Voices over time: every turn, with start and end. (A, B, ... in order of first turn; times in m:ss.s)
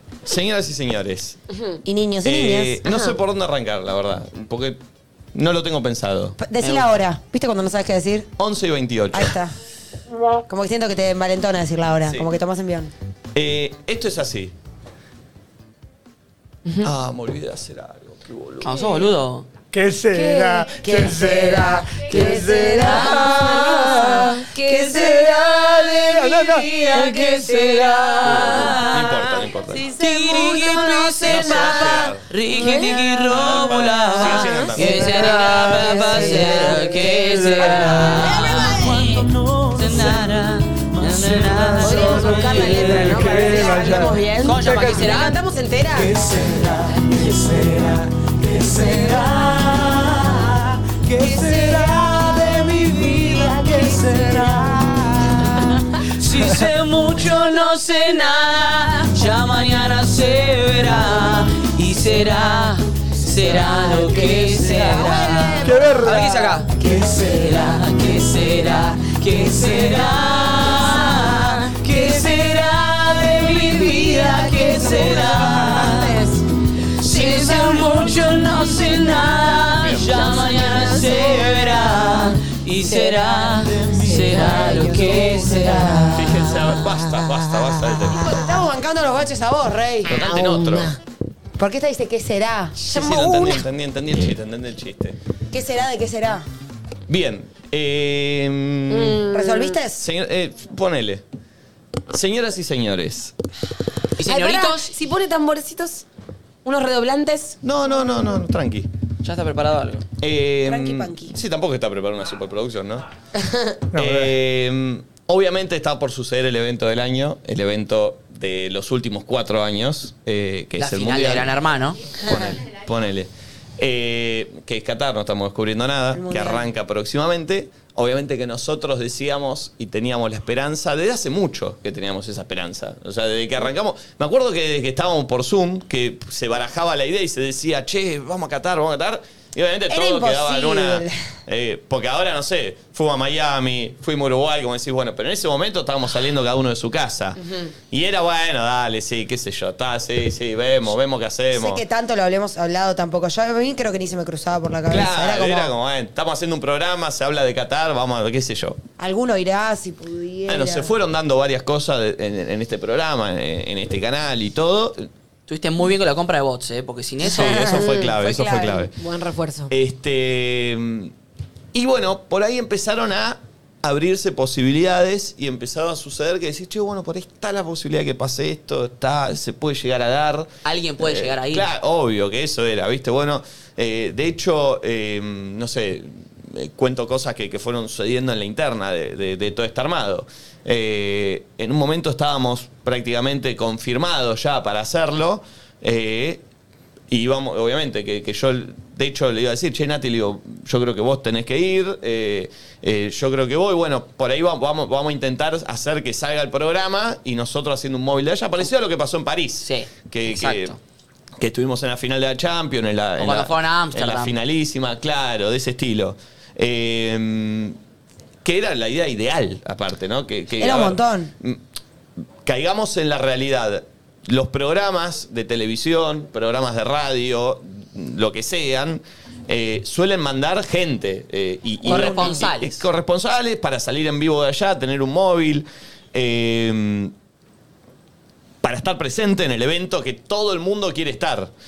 0:00.2-0:01.4 A
0:01.5-0:01.8 B
0:01.8-0:02.9 C
0:02.2-0:04.8 A
0:02.9-0:03.1 B
0:05.3-0:06.4 A
0:06.4-0:08.3 C
0:08.4-0:09.4 A
0:09.1-0:09.5 C
0:10.5-0:12.9 C
0:13.4-0:14.5 A
0:16.8-0:18.9 A
0:18.6-0:19.5 D
0:19.7-0:24.3 E
0:20.1-0:25.1 C
0:22.3-0:29.3 D
0:22.4-0:22.8 B
0:24.7-0:25.1 B
0:24.9-0:28.6 E
0:28.2-0:29.9 A
0:29.7-0:32.1 C
0:29.9-0:43.1 D
0:31.2-0:32.2 A
0:32.6-0:33.0 B
0:33.3-0:35.3 A
0:34.8-0:35.3 C
0:34.8-0:45.1 E
0:35.5-0:37.1 B
0:35.8-0:36.5 C
0:38.2-0:38.7 B
0:38.4-0:38.7 C
0:41.8-0:46.2 B
0:42.1-0:43.8 C
0:44.4-0:45.4 D
0:46.0-0:55.4 E
0:56.0-1:16.2 D
1:03.5-1:04.5 E
1:04.6-1:06.6 C
1:05.6-1:07.2 E
1:14.6-1:16.4 B
1:17.0-1:26.3 D
1:19.8-1:20.3 A
1:22.9-1:27.3 B
1:26.1-1:28.3 A
1:27.8-1:28.7 B
1:28.1-1:30.1 C
1:30.0-1:30.9 A
1:30.1-1:31.0 B
1:31.6-1:33.4 C
1:32.8-1:35.2 A
1:32.9-1:33.6 B
1:35.5-1:36.4 C
1:37.1-1:39.2 A
1:38.9-1:39.8 B
1:39.3-1:40.0 C
1:40.0-1:41.2 A
1:42.1-1:43.3 A
1:44.2-1:44.9 D
1:44.2-1:46.0 B
1:46.6-1:47.6 B
1:47.6-1:48.9 A
1:49.2-1:50.0 D
1:50.2-1:53.1 A
1:50.6-1:51.4 C
1:53.4-1:53.8 B
1:53.9-1:54.3 E
1:53.9-2:01.6 A
2:00.8-2:02.0 D
2:02.2-2:31.8 A
2:06.1-2:06.7 C
2:19.9-2:21.1 C
2:31.5-2:35.7 C
2:34.9-2:38.8 A
2:39.0-2:40.9 C
2:40.5-2:45.1 A
2:45.5-2:47.7 D
2:47.2-2:49.0 A
2:47.4-2:48.9 C
2:47.7-2:48.1 B
2:49.0-2:49.7 B
2:49.7-2:51.1 A
2:51.7-3:16.4 A
3:00.6-3:01.7 D
3:17.1-3:30.8 A
3:29.6-3:30.8 D
3:31.4-3:37.8 A
3:33.2-3:34.4 D
3:38.4-3:41.6 A
3:40.6-3:41.3 C
3:42.4-3:57.1 A
3:51.8-3:52.9 D
3:51.9-3:52.4 C
3:58.6-4:01.5 A